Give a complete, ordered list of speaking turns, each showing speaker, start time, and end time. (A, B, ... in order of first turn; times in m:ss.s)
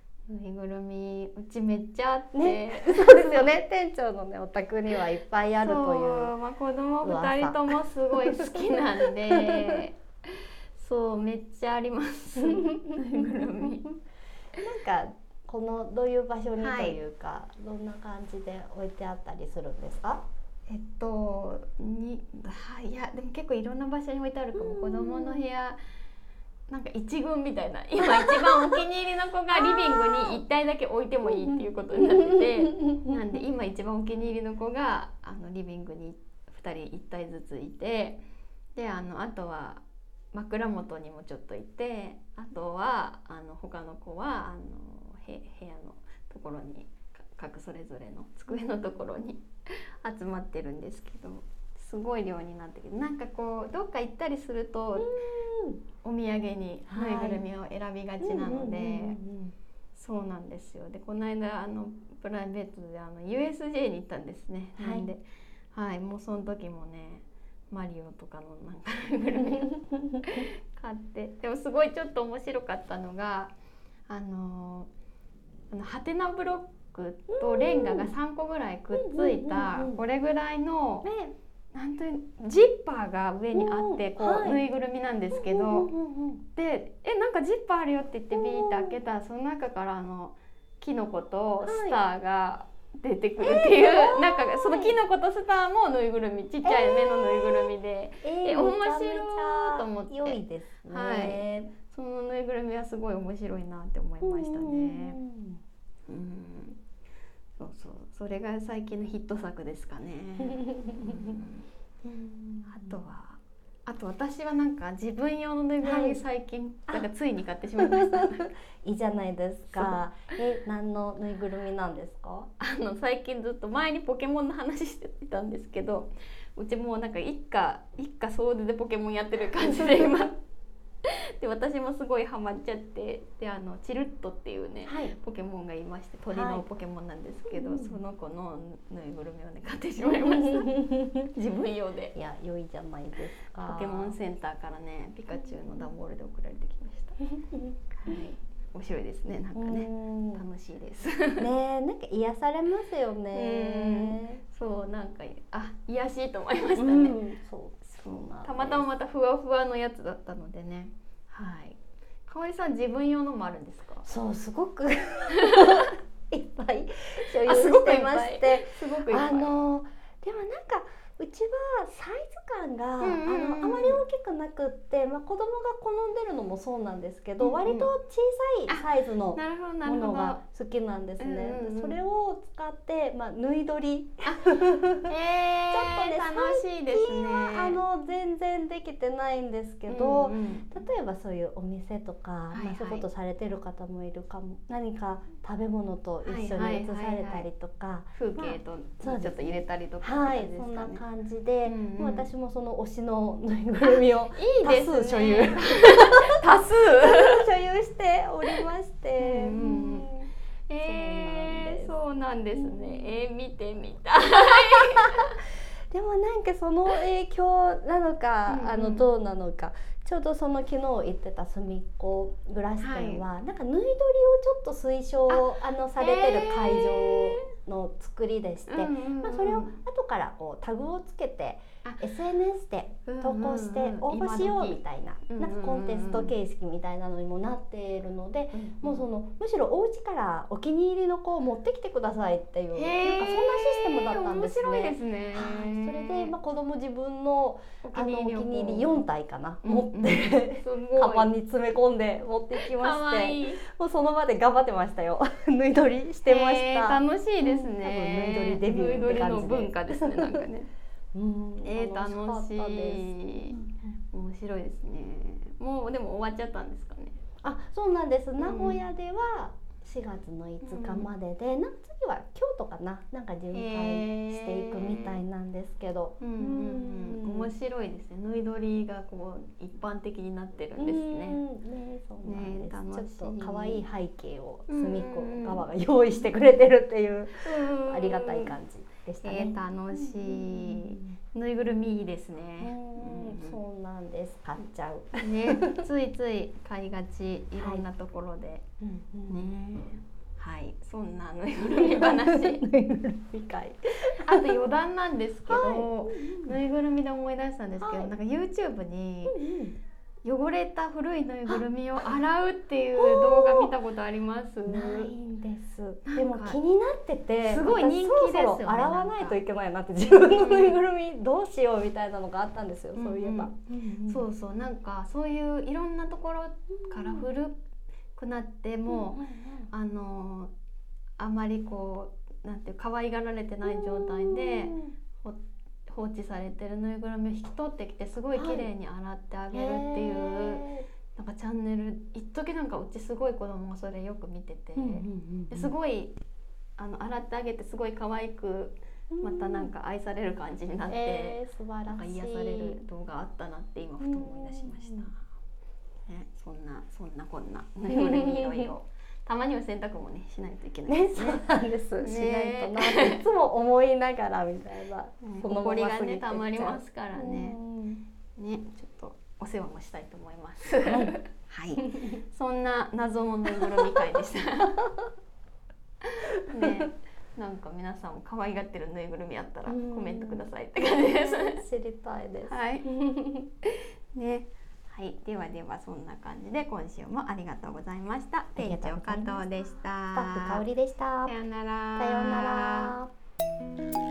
0:00.3-0:03.5 A
0:02.4-0:06.3 B
0:05.6-0:13.9 A
0:07.0-0:09.7 B
0:12.5-0:14.0 B
0:14.6-0:20.2 B
0:16.6-0:17.0 A
0:20.7-0:25.8 A
0:24.6-0:25.4 B
0:26.7-0:38.2 A
0:29.6-0:30.4 B
0:31.3-0:33.2 B
0:38.8-0:55.1 A
0:55.0-0:55.8 B
0:56.0-0:59.2 A
0:56.9-0:57.4 B
0:58.2-0:59.5 B
1:00.0-1:13.5 A
1:04.8-1:05.1 B
1:09.8-1:10.2 B
1:14.1-1:14.9 A
1:15.7-1:21.1 A
1:17.3-1:18.1 B
1:18.9-1:20.0 B
1:21.0-1:21.3 B
1:21.7-1:25.9 A
1:23.5-1:24.6 B
1:25.3-1:26.4 B
1:26.6-1:45.2 A
1:28.3-1:29.0 B
1:31.6-1:32.0 B
1:33.4-1:35.0 B
1:36.6-1:41.7 B
1:44.2-1:45.6 B
1:46.1-1:46.8 A
1:47.6-1:51.7 A
1:50.5-1:51.4 B
1:52.0-1:53.0 B
1:52.7-1:58.5 A
1:55.8-1:56.2 B
1:57.8-2:02.5 B
1:59.7-2:00.0 A
2:02.6-2:10.3 A
2:09.7-2:10.1 B
2:11.0-2:22.2 A
2:14.9-2:15.2 B
2:16.3-2:16.6 B
2:17.5-2:18.0 B
2:20.0-2:21.3 B
2:22.2-2:24.2 B
2:23.6-2:27.2 A
2:25.5-2:25.8 B
2:27.2-2:28.2 B
2:28.0-2:31.5 A
2:29.6-2:30.4 B
2:31.4-2:34.4 B
2:33.3-2:37.2 A
2:36.8-2:38.9 B
2:37.8-2:44.1 A
2:44.0-3:05.1 B
2:45.4-2:45.9 A
2:47.3-2:49.5 A
2:53.0-2:54.0 A
2:57.4-2:57.9 A
2:58.7-3:00.4 A
3:01.2-3:02.0 A
3:04.2-3:07.8 A
3:05.7-3:30.3 B
3:09.9-3:10.9 A
3:12.5-3:13.0 A
3:16.2-3:17.5 A
3:18.2-3:21.0 A
3:21.6-3:22.3 A
3:23.8-3:27.5 A
3:29.2-3:30.1 A
3:30.7-3:35.4 A
3:30.8-3:31.9 B
3:32.6-3:33.1 B
3:34.6-3:35.2 B
3:35.9-4:20.5 B
3:38.5-3:39.1 A
3:42.8-3:43.2 A
3:45.3-3:47.5 A
3:48.7-3:49.8 A
3:51.8-3:52.1 A
3:53.1-3:56.3 A
3:58.5-3:59.0 A
4:02.7-4:06.3 A
4:07.8-4:09.0 A
4:09.6-4:11.3 A
4:12.6-4:13.6 A
4:16.2-4:20.7 A
4:21.1-4:24.0 B
4:21.6-4:23.6 A
4:24.1-4:27.2 A
4:27.4-4:37.5 B
4:28.4-4:28.8 A
4:30.6-4:31.1 A
4:33.5-4:35.2 A
4:36.2-4:41.4 A
4:40.8-4:51.2 B
4:42.2-4:43.8 A
4:44.7-4:46.4 A
4:47.4-4:48.6 A
4:49.2-4:53.6 A
4:52.6-4:55.8 B
4:55.2-4:58.6 A
4:57.6-4:57.8 B
4:58.8-4:59.4 B
4:59.3-5:02.6 A
5:01.7-5:04.6 B
5:04.1-5:09.4 A
5:05.5-5:06.6 B
5:07.8-5:08.1 B
5:09.3-5:09.8 B
5:10.2-5:15.1 A
5:13.0-5:13.7 B
5:14.7-5:24.2 B
5:16.0-5:16.6 A
5:17.4-5:19.4 A
5:20.1-5:20.8 A
5:23.0-5:23.6 A
5:24.1-5:27.6 A
5:26.8-5:27.3 B
5:28.2-5:30.5 A
5:28.9-5:29.7 B
5:31.2-5:46.1 A
5:33.6-5:34.9 B
5:38.4-5:38.7 B
5:39.5-5:40.9 B
5:44.8-5:45.7 B
5:46.8-5:55.2 A
5:49.1-5:49.7 B
5:50.9-5:52.8 B
5:54.0-5:55.1 B
5:56.1-6:01.4 A
5:57.9-5:58.7 B
6:00.9-6:08.0 B
6:02.0-6:03.2 A
6:05.2-6:07.6 A
6:08.4-6:14.8 A
6:10.9-6:11.2 B
6:11.8-6:12.2 B
6:16.0-6:21.7 A
6:16.5-6:16.7 B
6:19.7-6:23.5 B
6:22.4-6:22.8 A
6:23.6-6:30.6 A
6:28.6-6:29.4 B
6:30.1-6:31.4 B
6:31.3-6:33.0 A
6:32.0-6:33.1 B